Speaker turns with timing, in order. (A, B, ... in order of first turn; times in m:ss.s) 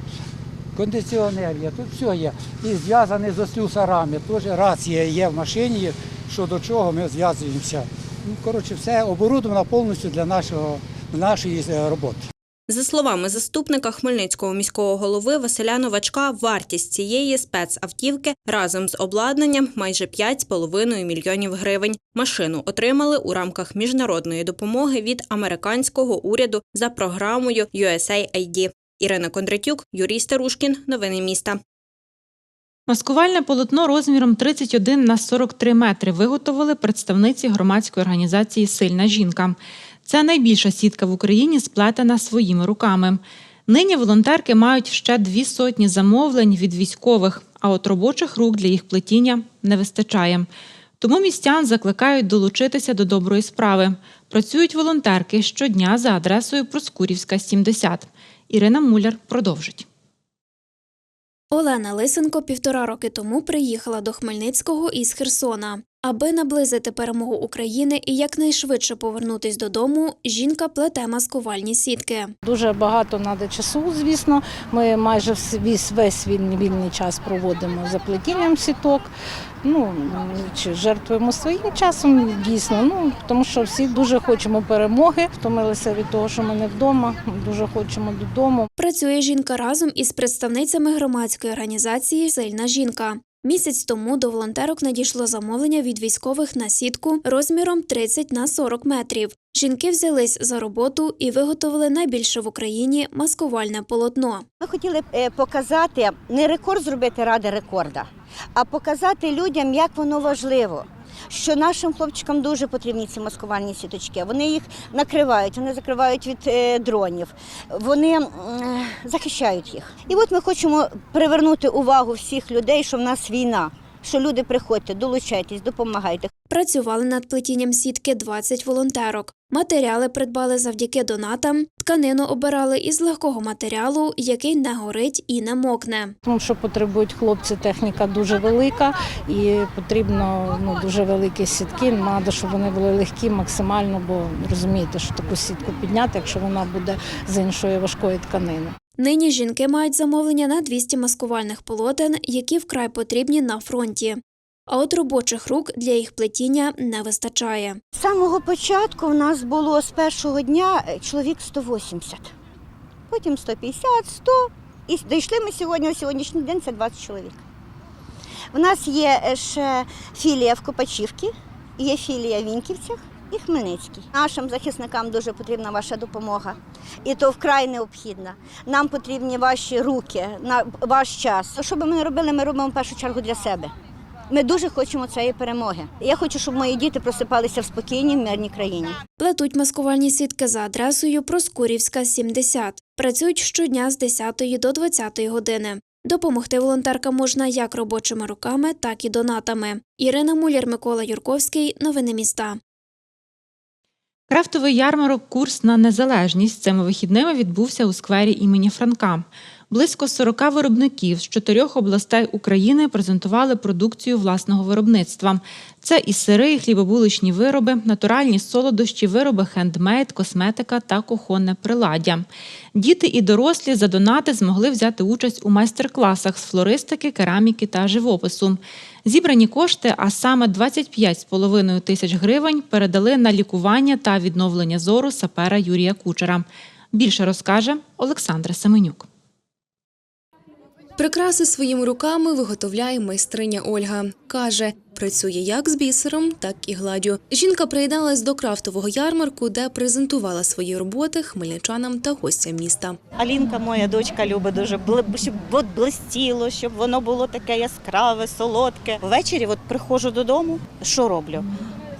0:00.7-0:12.3 A
0:12.7-0:31.6 B
0:32.9-0:50.5 C
0:51.0-0:59.8 C
1:01.5-1:12.3 D
1:12.4-1:19.1 E
1:19.6-1:28.7 E
1:28.8-1:44.4 D
1:44.6-2:06.3 F
2:06.5-2:16.1 D
2:16.2-2:28.8 E
2:29.0-2:37.8 D
2:37.9-2:42.3 F
2:43.1-2:47.4 F
2:48.5-3:03.7 F
3:04.3-3:09.0 F
3:09.2-3:22.6 D
3:24.3-3:59.0 C
4:01.0-4:13.0 G
4:13.2-4:21.5 H